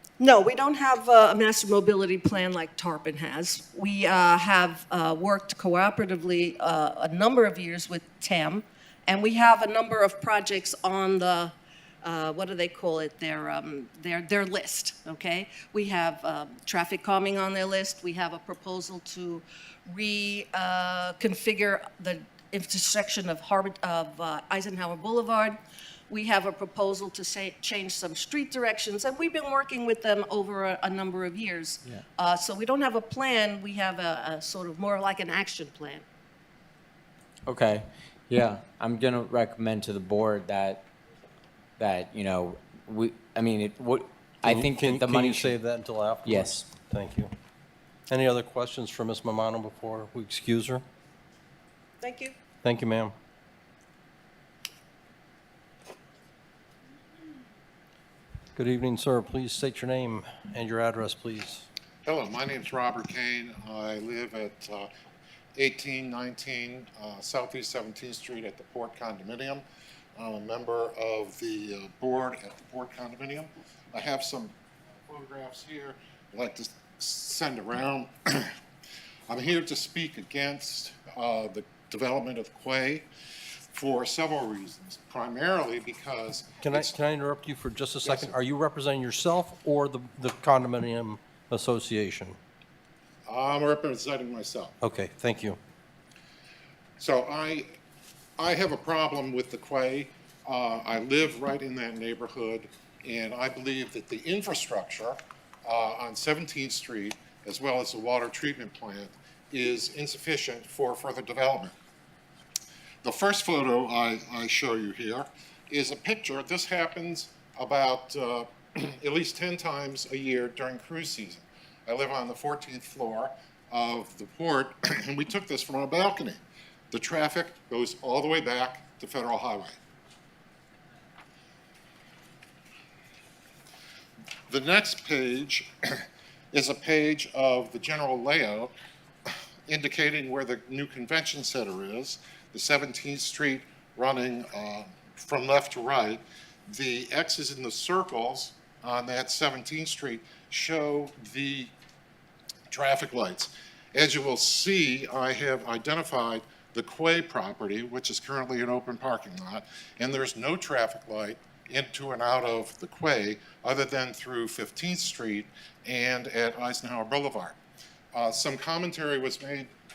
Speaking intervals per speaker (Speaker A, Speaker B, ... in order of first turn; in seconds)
Speaker A: 0.2-25.6, 26.1-36.0, 52.0-52.4
Speaker B: 37.5-40.9, 41.8-45.6, 46.2-46.7
Speaker C: 44.4-47.3, 48.1-50.9, 52.6-53.1, 58.5-61.7, 86.6-92.4, 94.8-95.6
Speaker D: 62.1-64.9, 65.6-69.6, 70.2-78.5, 79.3-83.1, 83.7-87.0, 88.0-88.4, 93.3-94.8, 97.0-97.7, 98.4-111.7, 113.0-126.4, 126.9-129.8, 134.5-138.7, 139.7-151.7, 152.7-167.6, 168.1-169.7